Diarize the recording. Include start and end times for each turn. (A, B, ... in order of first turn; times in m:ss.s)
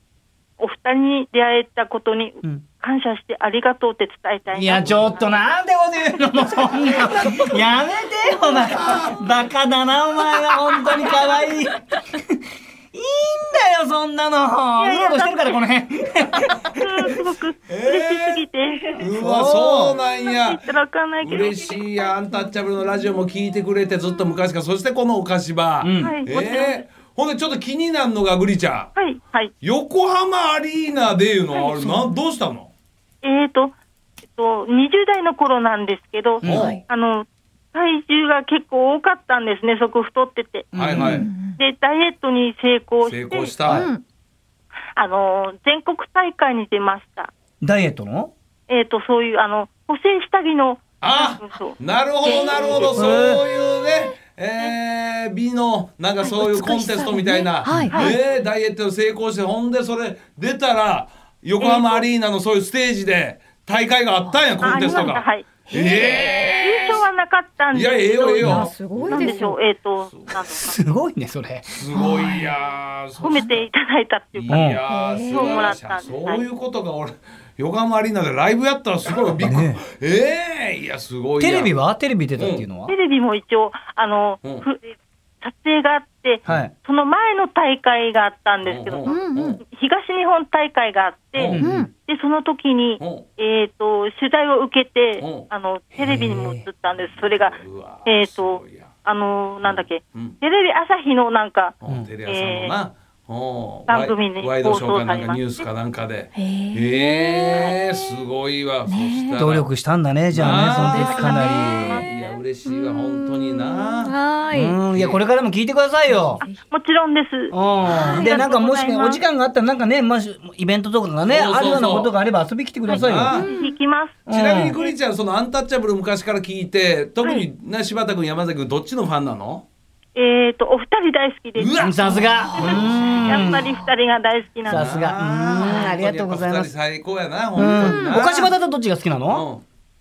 0:00.6-0:05.2 A
0:04.5-0:17.3 B
0:08.8-0:09.2 C
0:14.8-0:15.6 A
0:16.7-0:19.0 A
0:17.7-0:20.6 C
0:19.1-0:19.9 B
0:20.2-0:21.8 A
0:21.2-0:28.9 C
0:25.8-0:26.2 B
0:26.0-0:26.8 A
0:29.0-0:29.5 A
0:29.6-0:32.7 C
0:31.5-0:31.8 A
0:33.2-0:33.7 A
0:34.3-0:40.7 A
0:36.4-0:36.7 B
0:36.4-0:36.8 C
0:36.5-0:36.8 D
0:40.7-0:41.3 B
0:40.7-0:41.3 C
0:41.0-0:41.6 D
0:41.6-0:43.5 A
0:43.0-0:43.9 C
0:43.7-0:44.0 D
0:45.0-0:47.3 A
0:47.6-0:48.3 B
0:48.7-0:53.1 A
0:51.0-1:06.6 C
0:52.3-0:52.7 D
0:52.9-0:53.4 B
0:56.3-0:58.1 D
0:57.6-0:57.9 B
1:01.6-1:02.0 A
1:04.3-1:07.0 D
1:04.6-1:05.5 A
1:06.6-1:10.8 A
1:07.7-1:09.4 C
1:08.4-1:09.6 D
1:08.4-1:08.7 B
1:10.4-1:11.9 B
1:11.7-1:13.6 C
1:11.9-1:12.5 D
1:13.2-1:14.6 A
1:14.3-1:21.7 C
1:14.5-1:14.8 B
1:14.9-1:15.7 D
1:15.3-1:16.4 A
1:19.4-1:19.8 B
1:21.4-1:22.9 B
1:22.4-1:22.6 C
1:22.9-1:41.7 A
1:26.5-1:26.7 B
1:28.6-1:29.6 C
1:29.0-1:29.6 D
1:31.3-1:31.6 C
1:31.4-1:31.9 B
1:31.6-1:31.9 D
1:33.0-1:33.2 C
1:35.2-1:35.5 C
1:36.0-1:36.6 B
1:37.0-1:38.9 C
1:39.6-1:40.4 C
1:41.8-1:49.7 C
1:42.3-1:42.8 A
1:43.9-1:45.6 A
1:46.4-1:47.9 D
1:48.9-1:49.4 D
1:49.4-1:52.0 B
1:50.3-1:54.1 C
1:50.4-1:52.0 D
1:51.8-1:52.3 A
1:52.6-1:54.8 D
1:54.5-1:56.4 B
1:54.9-1:55.2 C
1:56.7-1:59.2 A
1:57.5-2:03.4 B
1:57.8-1:58.2 C
1:58.1-1:58.4 D
2:01.2-2:02.1 C
2:02.9-2:03.7 D
2:02.9-2:03.5 C
2:03.5-2:04.2 A
2:04.3-2:04.8 B
2:04.3-2:09.6 C
2:10.1-2:15.1 A
2:11.6-2:13.5 C
2:11.8-2:13.7 B
2:12.5-2:13.9 D
2:14.7-2:16.7 B
2:14.7-2:18.5 C
2:17.5-2:19.4 B
2:17.6-2:18.2 D
2:19.3-2:19.6 C